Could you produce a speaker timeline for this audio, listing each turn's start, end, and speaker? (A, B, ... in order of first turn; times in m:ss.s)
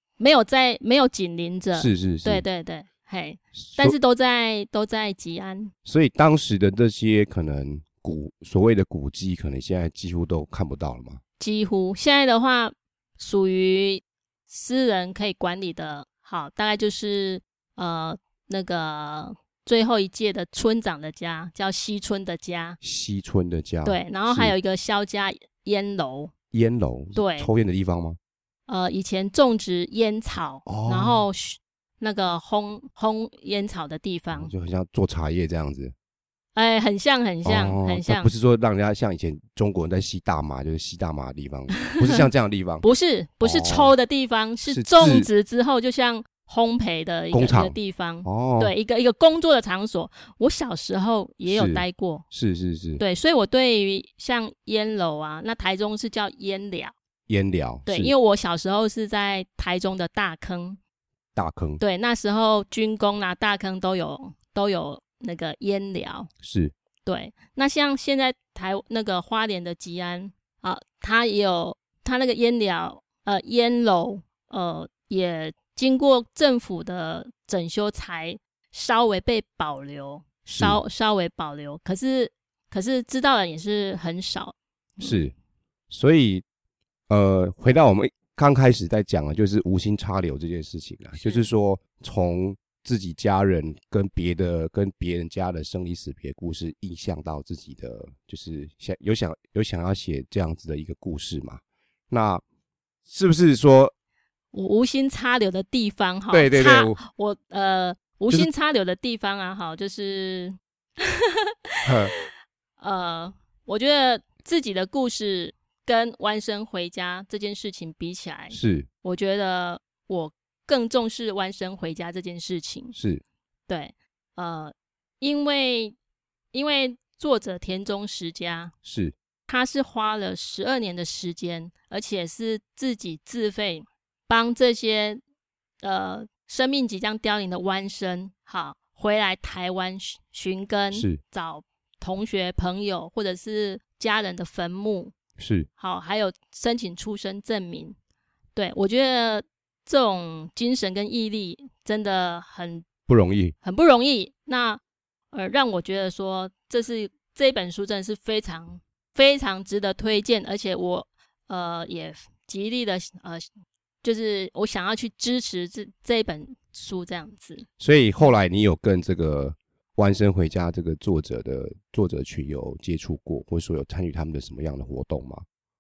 0:00.2-0:05.7 A
0:01.7-0:02.4 B
0:03.5-0:04.0 B
0:05.8-0:11.2 B
0:11.4-0:22.8 A
0:22.8-0:24.5 B
0:23.8-0:26.3 A
0:26.5-0:28.2 B
0:27.1-0:27.5 A
0:28.7-0:34.5 A
0:30.6-0:31.2 B
0:34.3-0:35.9 B
0:36.5-0:38.3 A
0:37.4-0:42.8 B
0:41.9-0:42.2 A
0:42.8-0:52.2 A
0:43.4-0:43.9 B
0:44.6-0:45.3 B
0:47.3-0:48.7 B
0:51.4-0:53.0 B
0:53.0-0:56.9 A
0:57.3-0:58.1 B
0:57.9-1:00.8 A
1:01.3-1:01.8 B
1:01.8-1:06.3 A
1:06.4-1:06.7 B
1:07.0-1:25.2 A
1:20.5-1:20.8 B
1:25.0-1:25.3 B
1:25.9-1:26.4 B
1:27.1-1:42.4 B
1:31.2-1:31.5 A
1:43.1-1:43.9 B
1:44.5-2:02.9 A
1:46.3-1:47.0 B
1:51.8-1:52.1 B
1:58.5-1:58.9 B
2:02.9-2:03.2 B
2:03.7-2:06.0 A
2:06.5-2:08.7 A
2:08.8-2:09.1 B
2:09.5-2:15.2 A
2:15.8-2:25.1 A
2:20.9-2:21.2 B
2:25.4-2:25.7 B
2:25.8-2:28.0 A
2:28.5-2:32.8 A
2:33.1-2:33.5 B
2:33.6-2:34.8 A
2:35.3-2:43.4 A
2:44.0-2:47.7 A
2:47.8-2:55.4 B